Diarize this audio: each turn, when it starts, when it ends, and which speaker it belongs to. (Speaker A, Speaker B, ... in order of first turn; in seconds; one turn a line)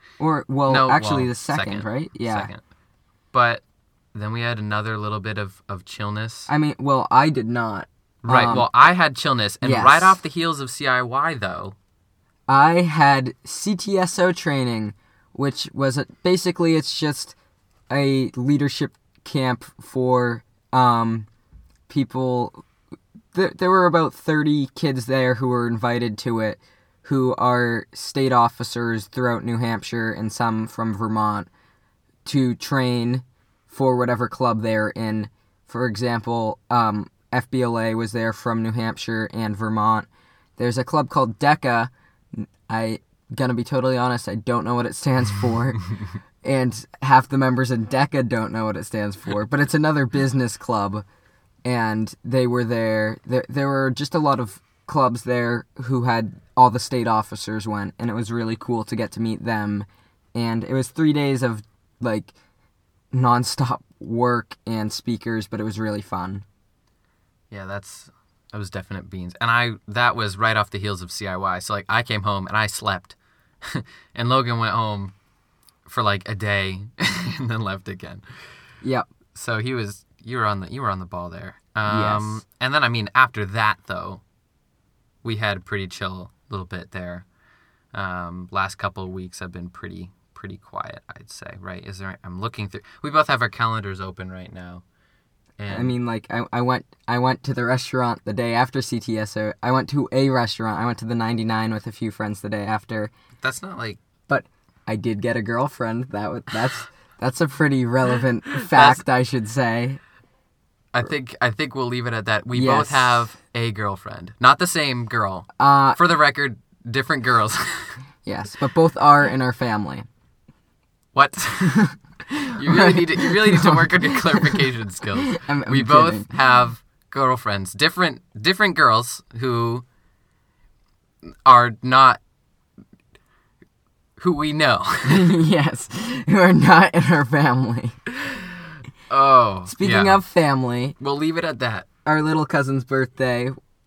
Speaker A: 0.2-2.5
Speaker B: 0.7-2.6
Speaker B: 3.3-3.6
Speaker B: 4.1-6.5
Speaker A: 6.5-8.7
Speaker B: 8.2-11.8
Speaker A: 9.6-10.2
Speaker A: 12.5-17.4
Speaker A: 17.9-21.3
Speaker A: 21.9-22.6
Speaker A: 23.3-31.5
Speaker A: 32.2-45.9
Speaker A: 46.4-51.0
Speaker A: 51.6-62.3
Speaker A: 63.1-66.4
Speaker B: 67.5-75.1
Speaker B: 75.8-78.2
Speaker A: 78.8-79.1
Speaker B: 79.3-84.2
Speaker A: 81.8-82.4
Speaker B: 85.2-87.2
Speaker B: 87.9-94.8
Speaker B: 95.6-96.0
Speaker A: 95.7-103.1
Speaker B: 103.4-104.0
Speaker A: 104.3-110.0
Speaker B: 108.5-109.0
Speaker B: 110.9-118.0
Speaker A: 112.5-113.2
Speaker A: 115.6-116.0
Speaker A: 118.2-120.1
Speaker B: 121.1-129.8
Speaker A: 122.6-126.3
Speaker B: 131.4-132.2
Speaker B: 134.2-135.3
Speaker A: 135.0-138.0
Speaker B: 139.1-140.2
Speaker A: 139.7-140.9
Speaker B: 141.0-141.9
Speaker A: 142.0-143.5